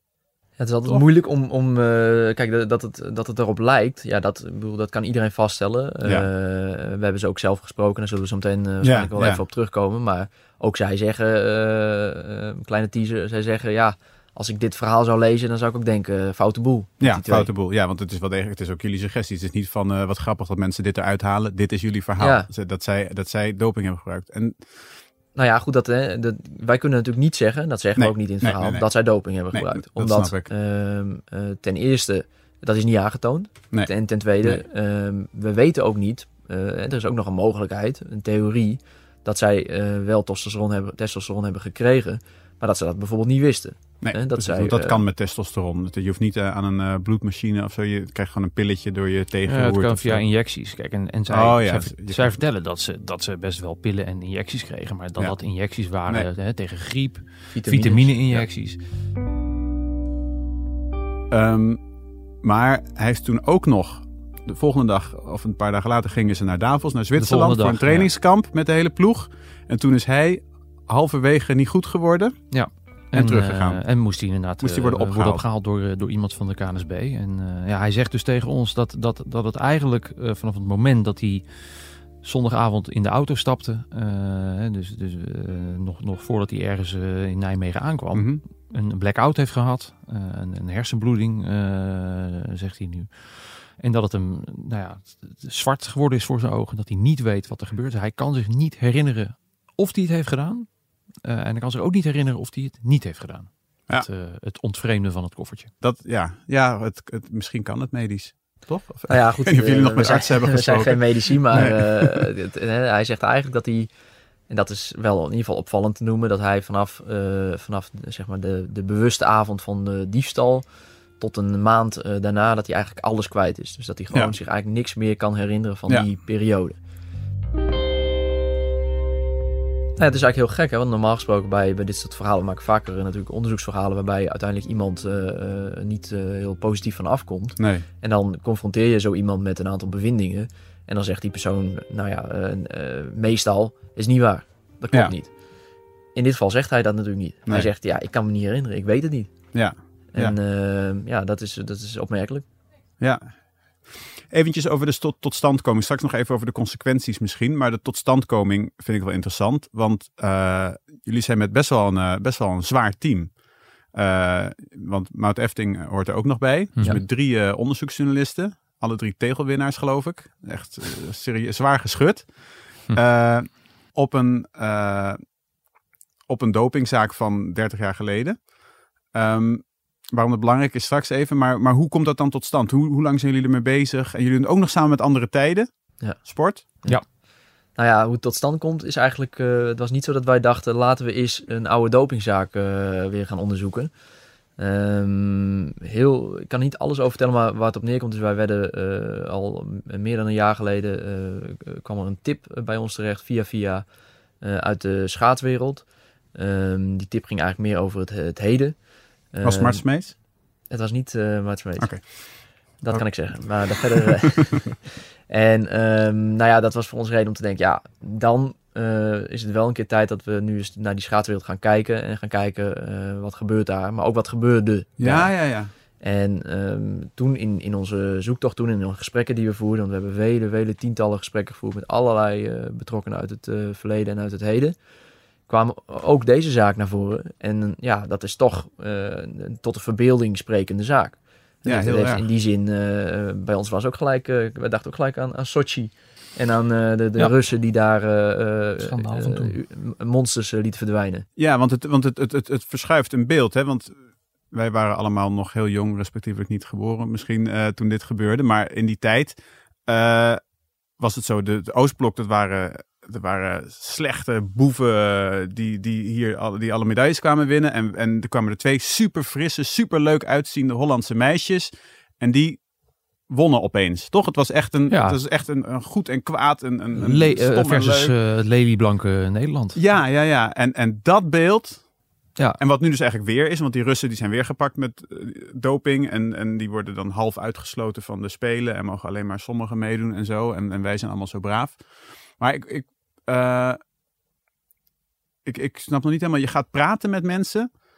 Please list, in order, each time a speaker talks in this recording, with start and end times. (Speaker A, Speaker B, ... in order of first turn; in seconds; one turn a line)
Speaker A: 0.6-17.5
Speaker B: 8.8-9.4
Speaker B: 17.0-24.9
Speaker A: 22.2-22.5
Speaker A: 25.3-45.0
Speaker B: 28.0-28.9
Speaker B: 29.5-30.5
Speaker B: 44.0-50.2
Speaker C: 49.5-58.8
Speaker B: 51.3-52.4
Speaker A: 57.5-58.5
Speaker B: 61.3-61.8
Speaker B: 62.4-72.5
Speaker C: 67.1-68.1
Speaker C: 72.5-105.7
Speaker B: 73.1-74.0
Speaker B: 74.6-75.4
Speaker B: 88.1-88.4
Speaker B: 105.8-112.2
Speaker A: 109.1-113.9
Speaker A: 114.5-120.6
Speaker A: 121.2-126.8
Speaker A: 130.0-145.4
Speaker B: 137.6-137.8
Speaker A: 146.1-149.5
Speaker B: 149.5-150.3
Speaker A: 150.1-152.4
Speaker B: 153.0-175.3
Speaker C: 166.8-167.0
Speaker B: 176.3-178.5
Speaker B: 179.1-186.7
Speaker A: 186.0-187.2
Speaker A: 187.7-193.9
Speaker A: 194.6-203.8
Speaker A: 204.4-210.2
Speaker B: 209.4-210.1
Speaker A: 210.7-234.8
Speaker B: 211.8-214.1
Speaker B: 225.0-225.7
Speaker A: 235.5-251.2
Speaker B: 241.7-242.3
Speaker C: 248.8-249.6
Speaker B: 251.4-253.9
Speaker B: 254.5-260.4
Speaker B: 260.9-272.7
Speaker B: 273.2-278.1
Speaker C: 274.9-275.2
Speaker C: 276.9-279.8
Speaker B: 279.7-281.9
Speaker B: 282.6-293.8
Speaker B: 295.4-297.7